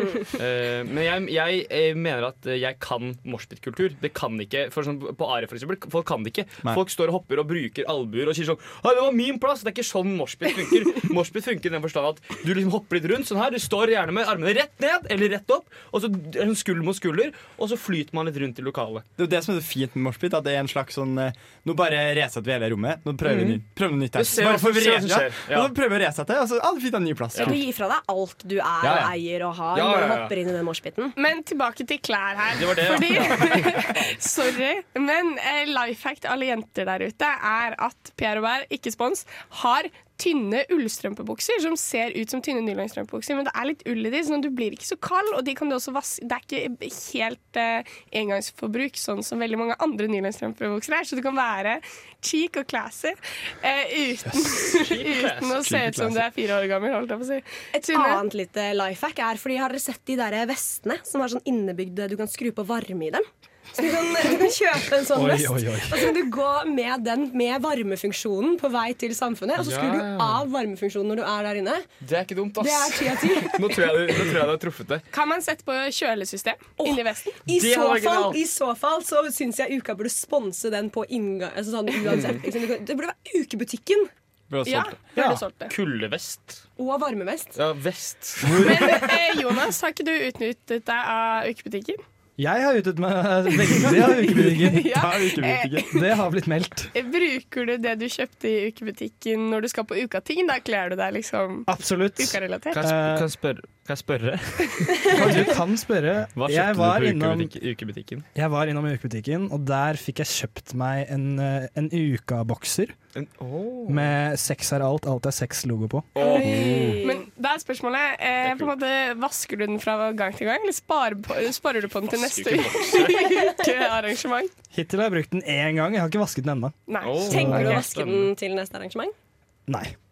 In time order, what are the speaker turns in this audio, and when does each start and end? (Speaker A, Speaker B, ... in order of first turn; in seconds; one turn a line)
Speaker A: 0.3-19.0
Speaker B: 19.2-27.6
Speaker A: 23.2-23.6
Speaker A: 24.1-25.7
Speaker C: 27.4-31.1
Speaker A: 28.8-29.1
Speaker A: 29.7-30.3
Speaker D: 31.2-58.2
Speaker A: 32.5-34.2
Speaker A: 54.7-55.6
Speaker B: 55.6-56.2
Speaker C: 57.7-71.9
Speaker E: 65.1-66.1
Speaker A: 69.6-70.5
Speaker A: 72.0-75.0
Speaker C: 72.6-73.9
Speaker D: 75.1-77.4
Speaker C: 76.8-84.1
Speaker A: 77.5-78.4
Speaker A: 82.0-82.4
Speaker B: 84.5-85.0
Speaker D: 84.6-85.7
Speaker A: 85.7-86.6
Speaker C: 86.8-87.5
Speaker A: 87.5-88.7
Speaker B: 88.5-88.9
Speaker D: 88.6-92.0
Speaker E: 92.4-94.9
Speaker B: 94.1-95.9
Speaker D: 94.7-95.9
Speaker E: 95.9-96.9
Speaker D: 96.9-102.8
Speaker E: 101.7-103.2
Speaker A: 102.7-105.5
Speaker E: 105.1-107.5
Speaker A: 106.3-108.2
Speaker E: 108.3-112.9
Speaker A: 113.2-114.1
Speaker E: 113.9-116.1
Speaker A: 116.1-116.7
Speaker C: 116.2-117.2
Speaker B: 116.4-117.0
Speaker D: 117.0-124.5
Speaker A: 118.4-118.7
Speaker A: 122.0-123.5
Speaker E: 124.7-127.8
Speaker D: 126.9-127.3
Speaker A: 127.0-128.3
Speaker C: 127.2-129.1
Speaker E: 129.7-129.9